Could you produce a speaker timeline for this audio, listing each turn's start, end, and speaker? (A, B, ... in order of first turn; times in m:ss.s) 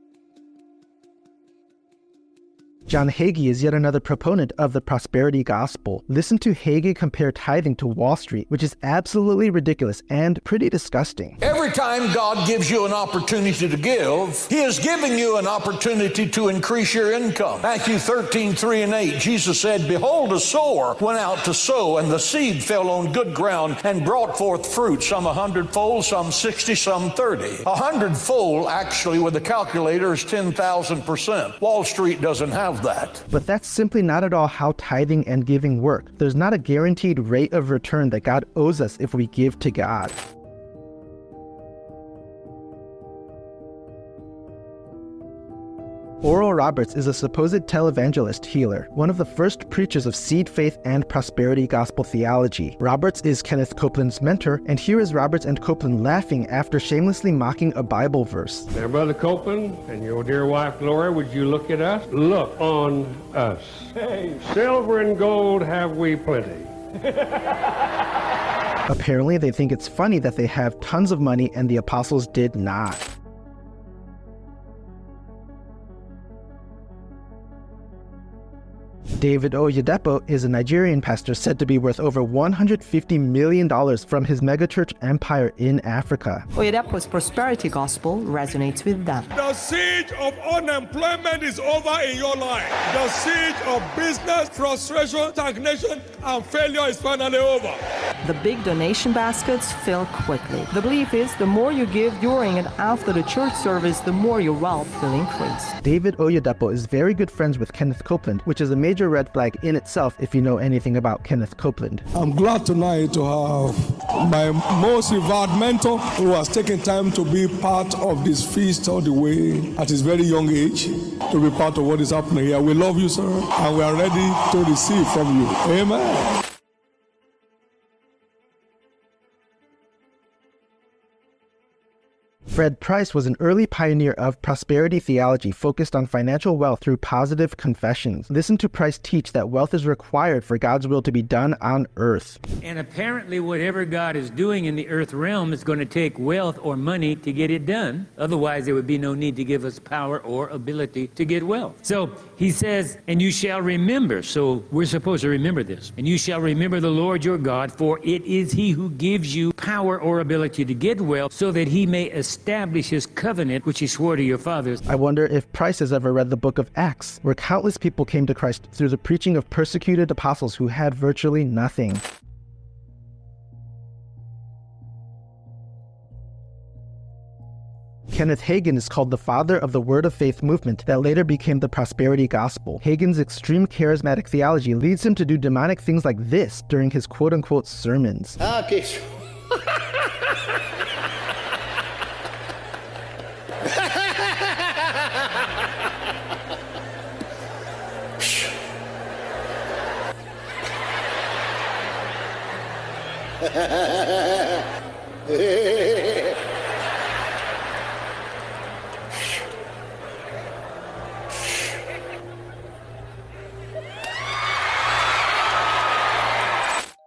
0:02.9-0:11.4 A
0:11.4-0:33.2 B
0:33.3-0:40.1 A
0:46.2-0:58.7 A
0:58.7-1:06.7 C
1:08.9-1:13.0 A
1:19.2-1:26.5 A
1:26.5-1:29.3 D
1:29.3-1:37.8 E
1:38.2-1:45.8 D
1:45.8-1:52.0 A
1:52.1-2:06.4 E
2:12.5-2:22.4 A
2:22.6-2:44.8 F
2:44.8-2:52.0 A
2:58.1-3:08.4 A